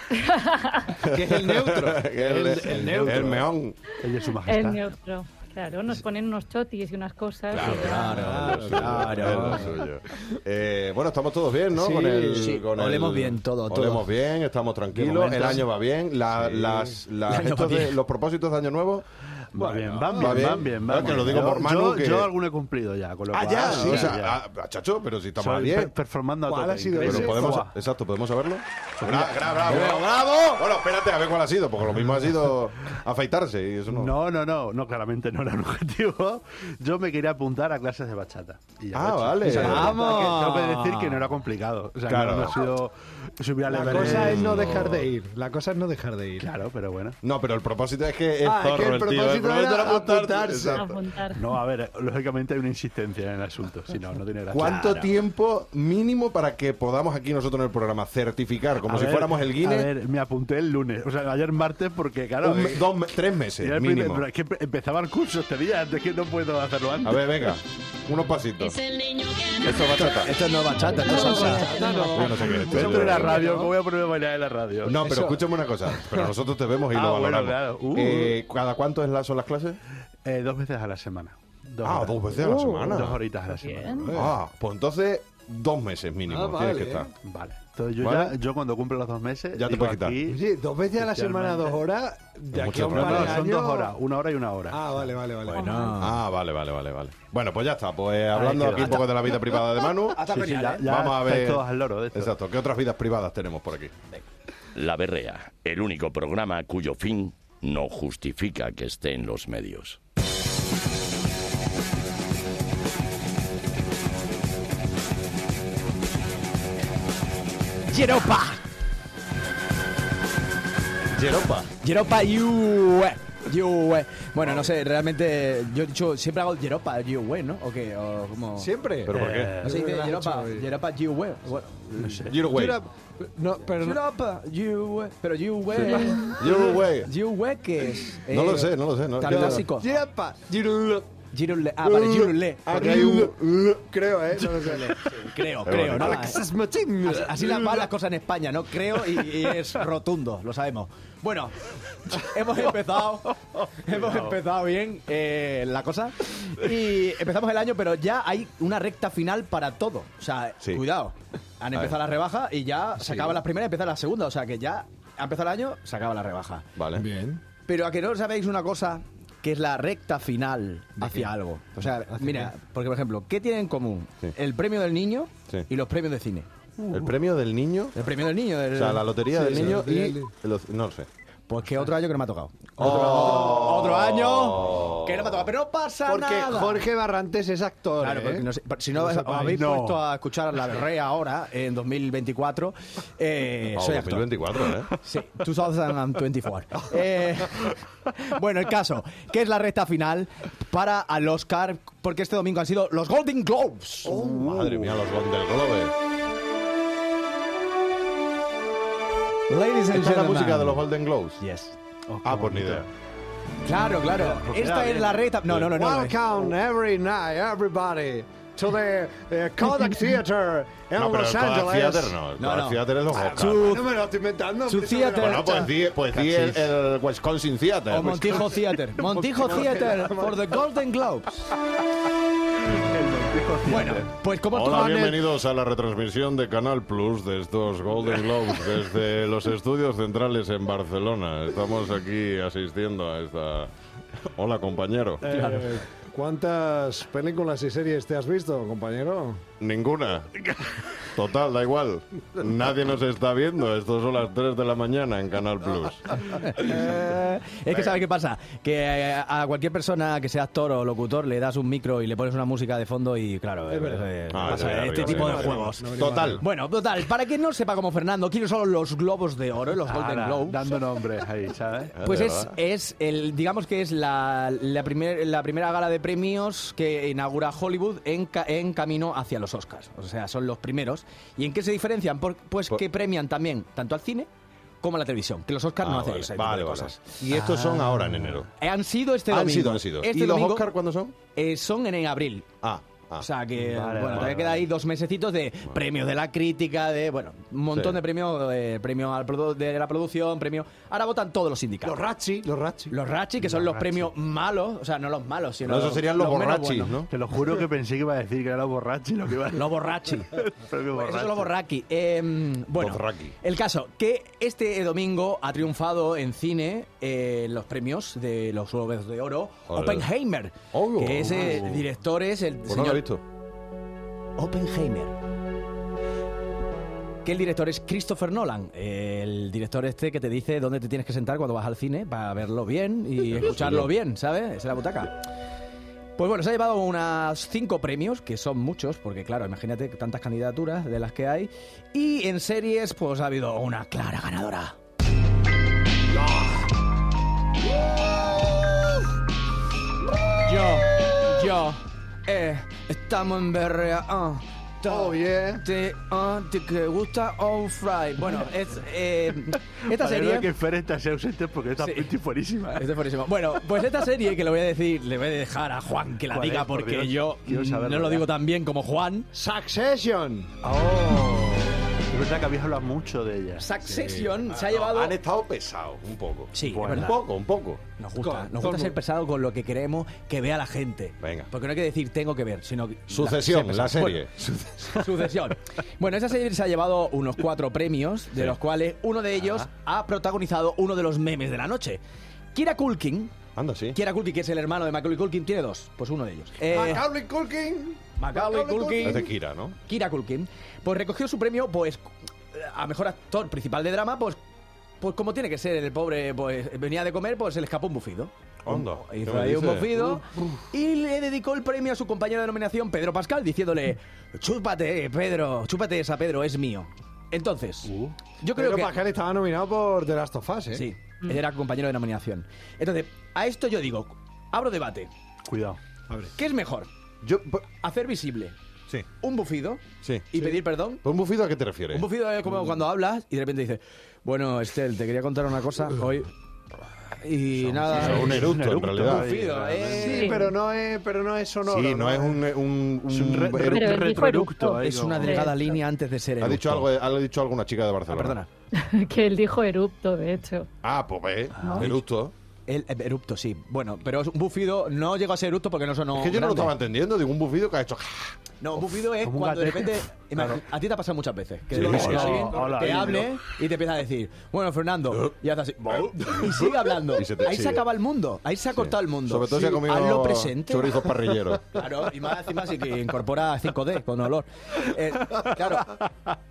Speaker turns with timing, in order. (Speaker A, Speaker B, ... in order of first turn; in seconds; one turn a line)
Speaker A: 0.1-0.9
Speaker B: 1.0-3.8
Speaker C: 1.1-3.5
Speaker D: 2.8-3.4
Speaker D: 4.0-4.8
Speaker A: 4.4-8.2
Speaker B: 7.5-19.1
Speaker E: 7.6-9.6
Speaker C: 8.0-9.7
Speaker C: 11.7-12.5
Speaker E: 12.3-14.1
Speaker D: 15.0-15.6
Speaker C: 16.6-16.9
Speaker E: 17.3-18.0
Speaker D: 19.5-24.4
Speaker C: 19.6-21.4
Speaker B: 20.1-22.3
Speaker B: 23.3-25.9
Speaker C: 23.5-24.1
Speaker D: 25.4-27.7
Speaker C: 26.4-27.6
Speaker B: 27.0-34.1
Speaker D: 29.0-29.4
Speaker E: 29.6-30.6
Speaker D: 33.9-45.0
Speaker B: 38.9-40.0
Speaker E: 39.4-41.2
Speaker C: 39.5-39.8
Speaker B: 42.1-42.6
Speaker C: 43.7-46.5
Speaker B: 43.7-45.0
Speaker D: 46.4-47.1
Speaker B: 47.2-51.0
Speaker C: 48.4-50.9
Speaker A: 50.8-51.4
Speaker D: 51.3-54.8
Speaker B: 54.5-59.9
Speaker E: 54.6-55.1
Speaker D: 58.9-62.9
Speaker B: 62.4-64.3
Speaker D: 63.6-67.5
Speaker B: 67.0-68.8
Speaker B: 69.6-70.4
Speaker E: 69.8-71.9
Speaker C: 70.9-73.7
Speaker A: 71.4-72.1
Speaker B: 72.1-73.4
Speaker D: 72.6-75.1
Speaker B: 74.8-79.8
Speaker C: 75.0-75.7
Speaker D: 76.9-78.4
Speaker D: 80.2-82.2
Speaker B: 81.8-83.2
Speaker C: 82.4-83.1
Speaker D: 82.7-84.2
Speaker A: 83.6-84.0
Speaker C: 84.0-84.3
Speaker B: 84.1-87.1
Speaker C: 86.3-87.1
Speaker D: 87.2-90.4
Speaker B: 88.0-88.3
Speaker B: 89.5-90.2
Speaker C: 90.3-94.0
Speaker D: 91.0-91.8
Speaker B: 92.5-93.5
Speaker D: 92.7-95.0
Speaker C: 94.7-95.9
Speaker B: 95.5-100.2
Speaker E: 95.5-96.2
Speaker A: 95.5-95.9
Speaker D: 98.3-99.0
Speaker E: 98.7-99.5
Speaker E: 100.1-100.8
Speaker D: 100.3-102.3
Speaker B: 100.8-103.9
Speaker F: 104.7-110.0
Speaker E: 117.9-118.6
Speaker B: 121.1-121.7
Speaker E: 121.8-128.7
Speaker C: 128.6-130.7
Speaker B: 129.1-129.6
Speaker D: 129.1-129.7
Speaker E: 129.6-132.2
Speaker D: 131.9-132.4
Speaker B: 132.2-132.8
Speaker C: 132.5-134.0
Speaker E: 133.8-139.9
Speaker B: 135.7-137.1
Speaker C: 135.9-136.8
Speaker B: 138.3-139.6
Speaker C: 139.2-141.1
Speaker E: 141.3-142.7
Speaker C: 141.9-145.1
Speaker B: 142.1-143.8
Speaker E: 145.1-146.4
Speaker B: 145.6-146.3
Speaker C: 145.9-147.9
Speaker E: 147.0-166.7
Speaker D: 153.8-154.3
Speaker C: 163.0-163.4
Speaker B: 166.8-167.0
Speaker C: 166.9-167.4
Speaker E: 167.7-176.5
Speaker C: 171.0-171.3
Speaker C: 172.1-172.5
Speaker B: 176.9-178.0
Speaker E: 177.9-179.7
Speaker B: 178.7-181.1
Speaker C: 179.3-180.3
Speaker E: 181.5-186.8
Speaker B: 182.8-185.5
Speaker C: 182.8-183.7
Speaker C: 186.1-188.4
Speaker E: 188.0-204.1
Speaker C: 189.2-189.6
Speaker D: 189.3-190.0
Speaker B: 193.7-194.9
Speaker C: 204.0-204.8
Speaker B: 204.1-205.9
Speaker E: 209.5-210.8
Speaker B: 209.9-211.4
Speaker E: 211.4-211.7
Speaker D: 212.1-212.9
Speaker B: 212.2-212.8
Speaker E: 213.6-216.2
Speaker D: 214.1-215.2
Speaker C: 215.6-222.1
Speaker B: 220.9-223.6
Speaker E: 222.4-223.9
Speaker C: 223.4-225.7
Speaker E: 224.7-226.3
Speaker B: 225.2-228.6
Speaker E: 227.9-231.5
Speaker C: 229.2-230.6
Speaker D: 232.9-234.1
Speaker E: 233.7-235.2
Speaker B: 234.5-243.7
Speaker B: 244.2-245.2
Speaker C: 245.2-249.4
Speaker D: 245.3-245.6
Speaker B: 249.6-250.3
Speaker B: 251.0-256.2
Speaker E: 256.4-270.7
Speaker C: 256.6-257.2
Speaker B: 257.7-258.0
Speaker C: 263.7-266.4
Speaker B: 264.3-266.4
Speaker D: 269.8-271.9
Speaker B: 271.9-272.5
Speaker E: 272.0-284.3
Speaker E: 284.8-287.1
Speaker B: 285.8-288.5
Speaker D: 287.3-288.4
Speaker E: 288.6-290.7
Speaker B: 289.3-291.1
Speaker E: 291.3-292.4
Speaker B: 292.6-293.3
Speaker E: 293.2-302.0
Speaker D: 293.6-294.6
Speaker B: 297.7-298.0
Speaker C: 301.8-302.9
Speaker E: 302.9-306.9
Speaker D: 303.4-304.1
Speaker B: 305.6-307.1
Speaker D: 307.1-311.5
Speaker E: 309.5-310.4
Speaker E: 310.9-323.0
Speaker B: 312.8-313.3
Speaker B: 319.7-320.1
Speaker B: 320.7-321.9
Speaker B: 322.7-323.2
Speaker E: 324.4-325.1
Speaker E: 327.2-335.2
Speaker B: 333.2-333.9
Speaker E: 336.2-344.8
Speaker C: 346.1-346.6
Speaker E: 350.4-360.5
Speaker C: 354.9-355.6
Speaker D: 359.9-362.9
Speaker E: 361.8-362.1
Speaker E: 362.7-369.3
Speaker D: 366.3-368.3
Speaker C: 369.3-370.6
Speaker D: 370.6-373.6
Speaker C: 371.1-371.3
Speaker E: 373.6-375.1
Speaker C: 373.9-374.3
Speaker B: 374.4-377.8
Speaker E: 376.5-377.1
Speaker D: 376.6-377.1
Speaker E: 378.0-384.2
Speaker C: 378.2-379.0
Speaker B: 381.2-381.5
Speaker B: 383.1-384.8
Speaker E: 384.9-392.0
Speaker E: 392.5-393.3
Speaker B: 393.5-394.0
Speaker E: 393.9-397.1
Speaker C: 396.7-399.3
Speaker E: 398.2-399.3
Speaker B: 399.0-399.8
Speaker E: 399.9-404.4
Speaker E: 405.0-418.9
Speaker B: 408.6-410.0
Speaker D: 417.8-418.1
Speaker C: 418.6-420.9
Speaker E: 420.7-425.1
Speaker D: 425.5-425.8
Speaker E: 426.4-426.9
Speaker B: 427.2-427.6
Speaker E: 427.8-428.5
Speaker E: 429.2-431.0
Speaker B: 430.0-432.1
Speaker E: 431.9-436.3
Speaker E: 437.2-438.5
Speaker B: 437.8-439.3
Speaker D: 437.9-440.2
Speaker E: 439.0-440.4
Speaker C: 440.0-442.4
Speaker A: 440.1-440.5
Speaker B: 441.6-444.1
Speaker D: 443.1-445.6
Speaker A: 443.7-445.6
Speaker E: 444.6-446.9
Speaker B: 446.4-448.4
Speaker E: 448.1-448.5
Speaker A: 448.7-450.7
Speaker B: 450.8-452.3
Speaker E: 452.7-456.7
Speaker B: 456.1-458.8
Speaker E: 458.6-471.1
Speaker D: 459.2-460.6
Speaker D: 461.7-463.4
Speaker B: 461.7-462.5
Speaker B: 467.1-467.8
Speaker B: 468.7-471.8
Speaker E: 471.7-476.0